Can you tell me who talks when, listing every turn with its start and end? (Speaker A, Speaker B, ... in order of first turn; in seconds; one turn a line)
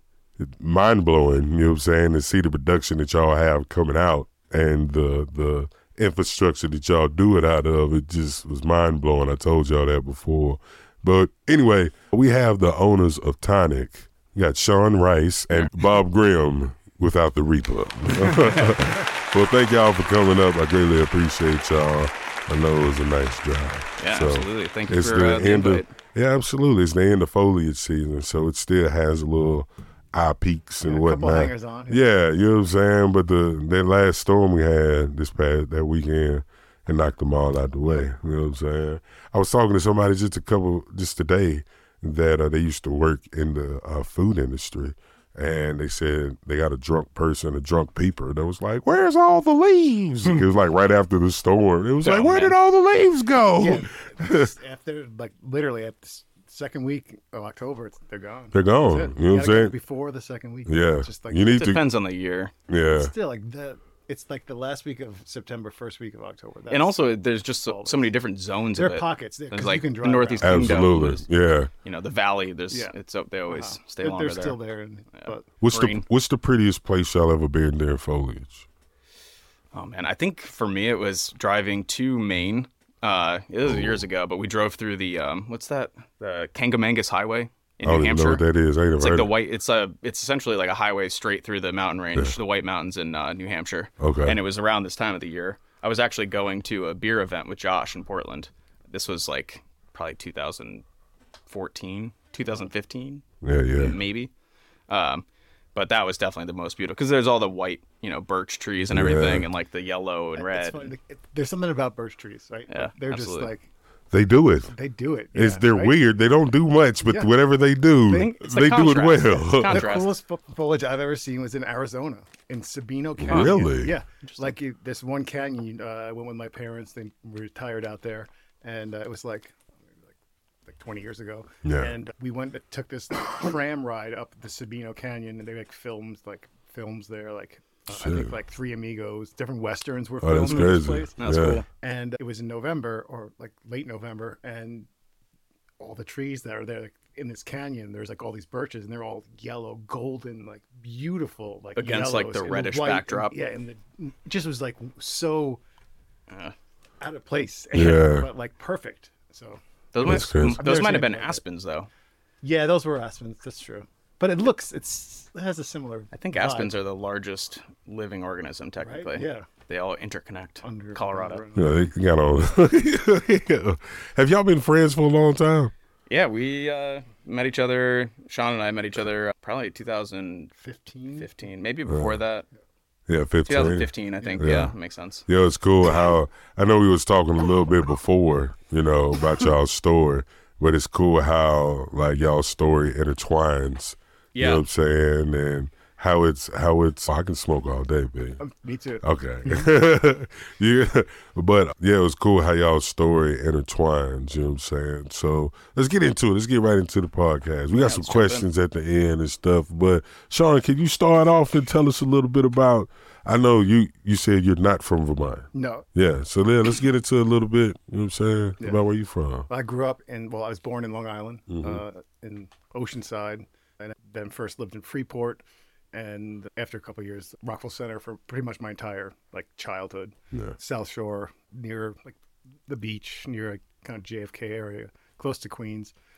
Speaker A: 0.4-54.5
Speaker B: 18.2-18.7
Speaker B: 24.0-25.9
Speaker C: 30.8-32.0
Speaker B: 52.0-52.5
Speaker C: 53.6-61.6
Speaker A: 58.5-59.7
Speaker A: 60.6-61.8
Speaker B: 61.5-62.5
Speaker A: 62.7-63.1
Speaker C: 62.9-67.0
Speaker B: 66.7-71.2
Speaker C: 67.7-68.1
Speaker C: 68.7-71.0
Speaker A: 70.4-71.7
Speaker B: 71.8-74.6
Speaker C: 73.5-75.5
Speaker B: 75.2-76.0
Speaker A: 75.6-78.7
Speaker B: 79.7-88.4
Speaker A: 83.7-84.0
Speaker A: 87.8-89.3
Speaker B: 89.0-100.8
Speaker A: 94.0-94.4
Speaker B: 101.5-104.3
Speaker A: 103.4-104.0
Speaker B: 104.9-110.9
Speaker A: 108.9-109.5
Speaker C: 110.3-113.7
Speaker B: 112.7-113.5
Speaker A: 114.1-114.7
Speaker C: 114.7-116.0
Speaker A: 115.3-119.8
Speaker C: 117.0-117.3
Speaker B: 118.1-120.1
Speaker C: 119.6-130.1
Speaker A: 123.2-123.9
Speaker B: 124.2-124.5
Speaker C: 130.7-144.9
Speaker A: 131.6-131.9
Speaker A: 137.9-138.3
Speaker A: 140.2-141.6
Speaker B: 140.4-141.6
Speaker C: 145.8-155.6
Speaker B: 151.8-153.3
Speaker B: 156.3-156.5
Speaker C: 157.0-161.4
Speaker A: 157.7-158.3
Speaker B: 159.9-161.9
Speaker A: 160.0-160.6
Speaker C: 162.4-166.8
Speaker B: 166.1-171.4
Speaker C: 168.8-169.5
Speaker C: 170.6-171.9
Speaker A: 171.5-175.7
Speaker B: 176.1-180.5
Speaker C: 180.6-181.3
Speaker B: 181.2-182.4
Speaker A: 181.9-182.2
Speaker A: 183.1-184.7
Speaker B: 183.5-185.2
Speaker C: 184.2-184.4
Speaker A: 185.2-198.4
Speaker B: 194.3-194.6
Speaker C: 198.4-199.7
Speaker A: 199.0-219.5
Speaker B: 207.7-208.4
Speaker C: 215.5-215.8
Speaker C: 219.5-235.9
Speaker A: 221.5-221.8